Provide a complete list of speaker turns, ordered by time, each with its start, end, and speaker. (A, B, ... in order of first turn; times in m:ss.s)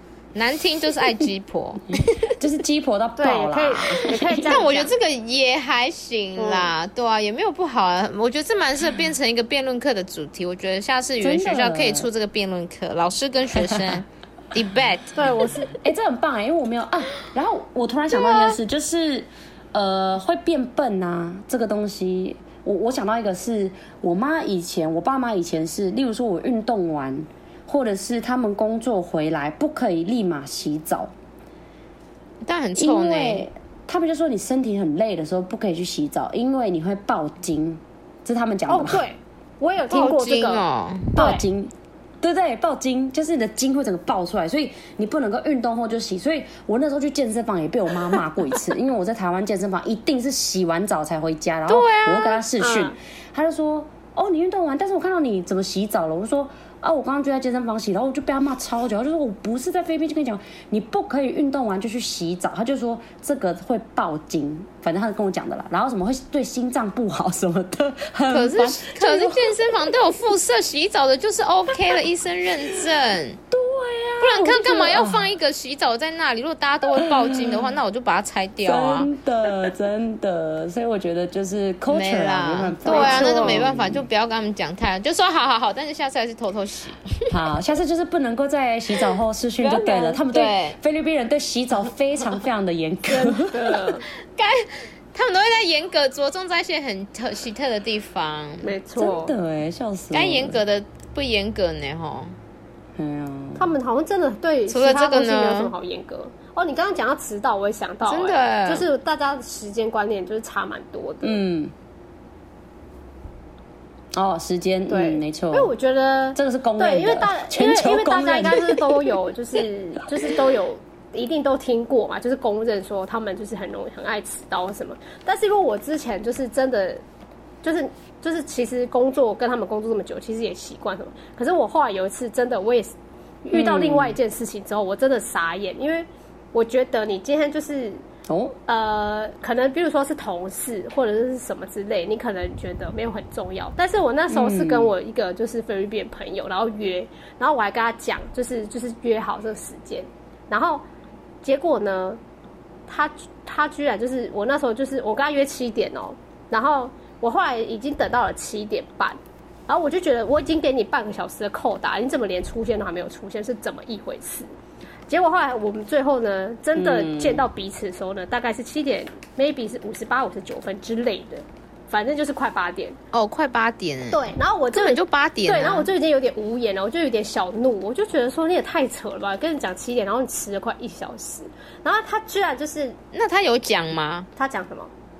0:00.3-0:02.3 A
0:02.2-0:04.5 B
0:03.2-0:04.9 C
0:04.0-0:15.5 A
0:06.4-0:06.7 C
0:11.2-0:12.1 B
0:15.2-0:15.7 C
0:15.8-0:31.1 B
0:18.2-0:18.6 A
0:32.4-0:33.5 A
0:32.8-0:39.0 B
0:38.7-0:40.6 C
0:39.9-0:41.1 A
0:41.1-1:09.9 B
0:41.2-0:41.4 C
0:51.7-0:52.4 A
0:52.6-0:53.0 C
1:08.3-1:13.4 A
1:13.5-1:15.3 B
1:14.2-1:19.7 A
1:17.0-1:17.7 B
1:18.6-1:24.0 B
1:21.9-1:27.1 A
1:22.8-1:23.6 C
1:27.3-1:33.8 B
1:29.0-1:30.8 A
1:33.1-1:34.0 C
1:34.3-1:38.7 A
1:38.6-1:39.3 C
1:39.0-1:40.6 B
1:40.1-1:42.4 A
1:43.0-1:43.7 B
1:43.6-1:51.4 C
1:44.7-1:45.7 A
1:48.1-1:48.9 A
1:51.2-1:51.7 B
1:54.1-1:55.7 B
1:54.9-2:07.0 C
1:56.3-1:59.1 B
2:07.6-2:18.0 C
2:13.5-2:14.2 B
2:18.3-2:18.6 B
2:18.7-2:30.8 C
2:24.3-2:24.9 B
2:31.4-2:32.2 C
2:32.9-2:44.5 C
2:45.1-2:53.0 C
2:46.8-2:47.4 B
2:53.1-2:55.9 A
2:54.1-3:03.0 C
3:03.1-3:04.3 A
3:04.4-3:04.9 C